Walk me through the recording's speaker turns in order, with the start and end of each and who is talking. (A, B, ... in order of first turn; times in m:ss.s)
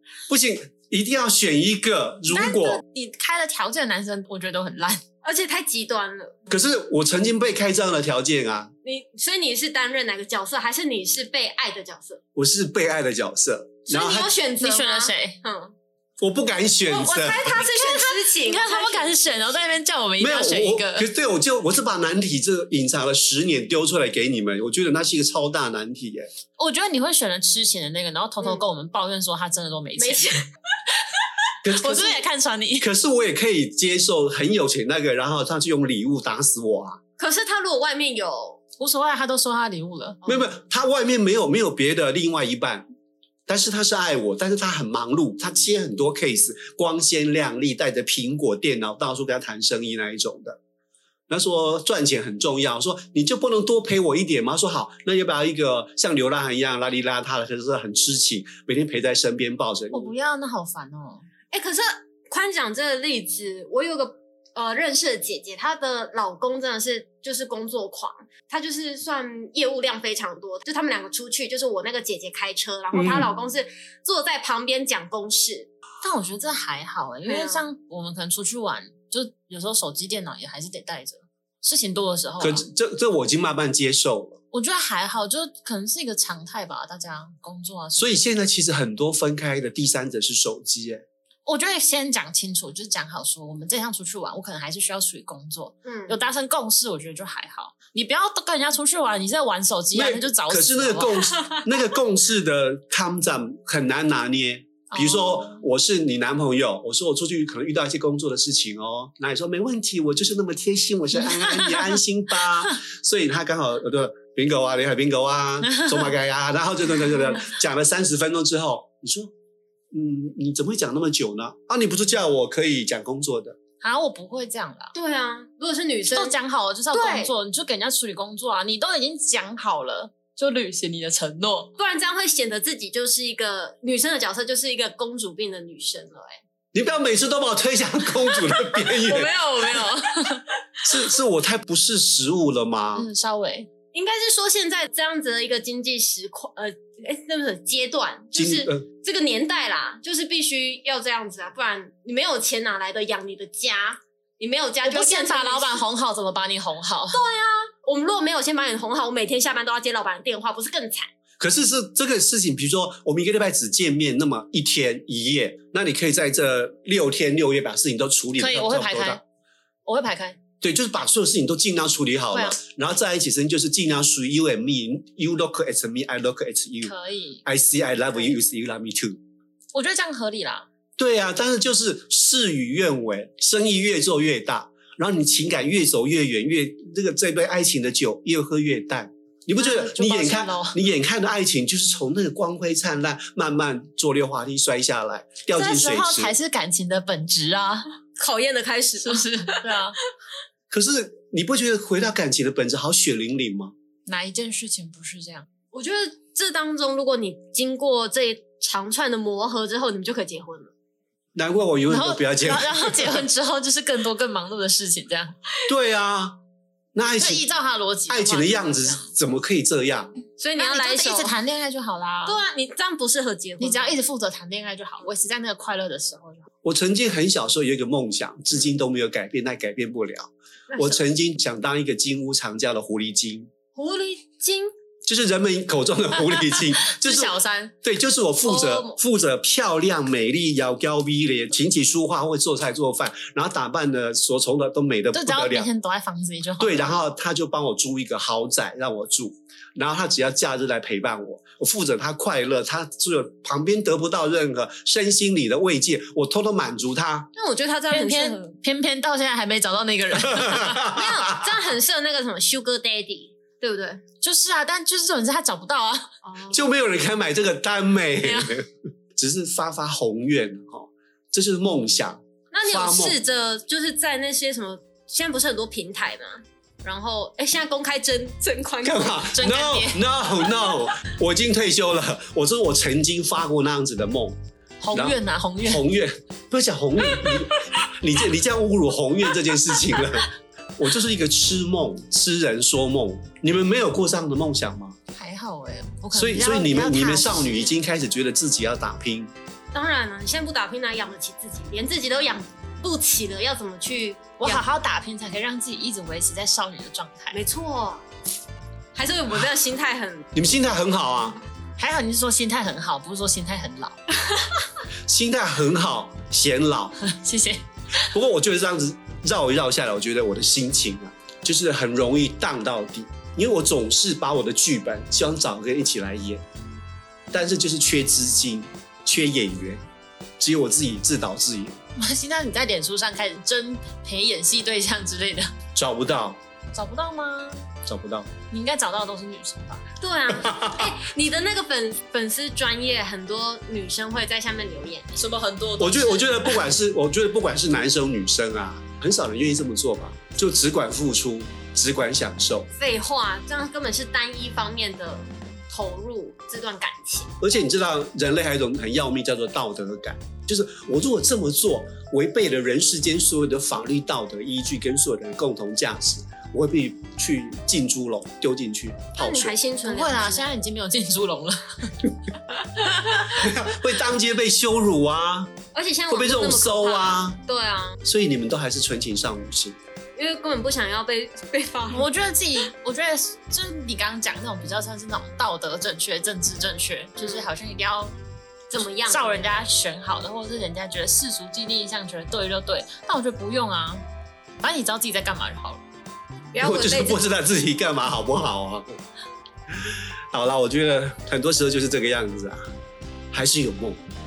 0:00.3-0:02.8 A
0:02.3-0:05.0 B
0:05.2-0:06.3 C
0:06.5-0:08.7 A
0:08.8-0:12.2 C
0:12.4-0:14.3 A
0:13.9-0:15.7 C
0:14.6-0:15.4 B
0:16.2-0:17.6 A
0:16.8-0:19.2 C
0:17.6-0:21.1 B
0:20.2-0:26.3 A
0:26.6-0:30.4 B
0:30.0-0:30.4 C
0:31.6-0:32.2 A
0:31.6-0:32.9 B
0:32.8-0:37.0 A
0:37.2-0:38.6 C
0:38.8-0:40.2 B
0:40.2-0:40.5 C
0:40.2-0:42.8 A
0:43.5-0:50.6 A
0:51.3-1:00.1 A
0:59.9-1:01.3 B
1:01.5-1:15.7 C
1:12.9-1:13.3 A
1:16.0-1:22.6 B
1:17.2-1:17.6 C
1:22.4-1:24.4 A
1:24.5-1:28.2 B
1:28.0-1:31.0 A
1:31.4-1:41.3 B
1:35.8-1:36.1 C
1:39.9-1:59.3 A
1:44.9-1:45.6 B
1:51.2-1:52.0 B
1:55.6-1:56.1 B
1:59.9-2:03.6 A
2:03.8-2:04.9 B
2:04.9-2:06.4 C
2:06.1-2:11.7 B
2:06.9-2:07.3 C
2:11.8-2:16.4 C
2:16.7-2:19.3 A
2:18.9-2:20.4 B
2:20.8-2:23.1 A
2:22.9-2:23.7 B
2:23.9-2:35.8 C
2:28.3-2:28.8 A
2:34.8-2:37.2 B
2:37.1-2:41.1 C
2:41.4-2:49.2 A
2:48.4-2:49.2 B
2:49.8-2:50.4 B
2:50.6-2:59.2 A
2:52.3-2:52.6 B
2:56.8-2:57.4 B
2:59.7-3:00.6 B
3:01.0-3:16.3 A
3:09.5-3:10.8 B
3:15.5-3:17.9 B
3:18.2-3:19.6 C
3:19.0-3:20.0 B
3:20.7-3:23.7 A
3:24.0-3:25.4 B
3:25.7-3:30.7 C
3:31.3-3:33.3 A
3:31.9-3:35.3 B
3:35.7-3:36.4 A
3:36.9-3:37.4 A
3:37.2-3:39.1 B
3:38.1-3:40.1 A
3:40.4-3:41.3 C
3:40.6-3:42.4 B
3:42.2-3:44.0 C
3:43.6-3:46.5 B
3:46.6-3:53.5 A
3:50.7-3:51.1 C
3:53.7-3:54.7 C
3:55.0-4:05.7 A
3:56.2-3:57.7 B
3:58.6-3:58.8 C
4:05.1-4:07.0 B
4:06.6-4:17.3 A
4:17.3-4:18.5 C
4:17.9-4:20.9 B
4:20.2-4:21.5 A
4:20.9-4:24.0 C
4:24.2-4:26.1 B
4:26.2-4:26.7 C
4:26.5-4:33.2 A
4:28.2-4:28.6 B
4:32.5-4:39.3 C
4:38.8-4:44.4 A
4:39.3-4:40.0 B
4:44.8-4:45.8 B
4:44.9-4:55.0 A
4:47.1-4:47.4 C
4:55.1-4:57.8 B
4:56.1-4:59.3 A
4:59.7-5:04.6 C
5:04.4-5:07.4 B
5:07.3-5:08.0 C
5:08.9-5:10.2 C
5:10.3-5:11.4 A
5:11.8-5:14.0 B
5:15.1-5:17.0 A
5:17.0-5:17.6 B
5:18.1-5:26.4 A
5:27.3-5:29.8 A
5:30.4-5:31.8 A
5:32.0-5:35.5 B
5:35.7-5:36.4 A
5:36.7-5:37.7 B
5:37.8-5:38.3 A
5:38.5-5:39.8 B
5:40.0-5:45.1 C
5:40.4-5:40.9 A
5:45.1-5:46.6 B
5:45.8-5:52.7 A
5:52.8-5:57.3 C
5:57.4-6:09.5 A
6:09.2-6:10.5 C
6:09.8-6:12.0 B
6:12.8-6:13.3 B
6:13.3-6:15.5 A
6:15.7-6:18.0 C
6:16.1-6:17.4 A
6:18.0-6:19.8 A
6:20.2-6:22.1 C
6:21.9-6:28.2 B
6:27.2-6:27.5 C
6:28.7-6:29.5 C
6:29.0-6:34.0 B
6:34.6-6:35.8 B
6:36.5-6:37.2 C
6:36.6-6:39.0 A
6:39.7-6:42.6 A
6:43.3-6:44.0 A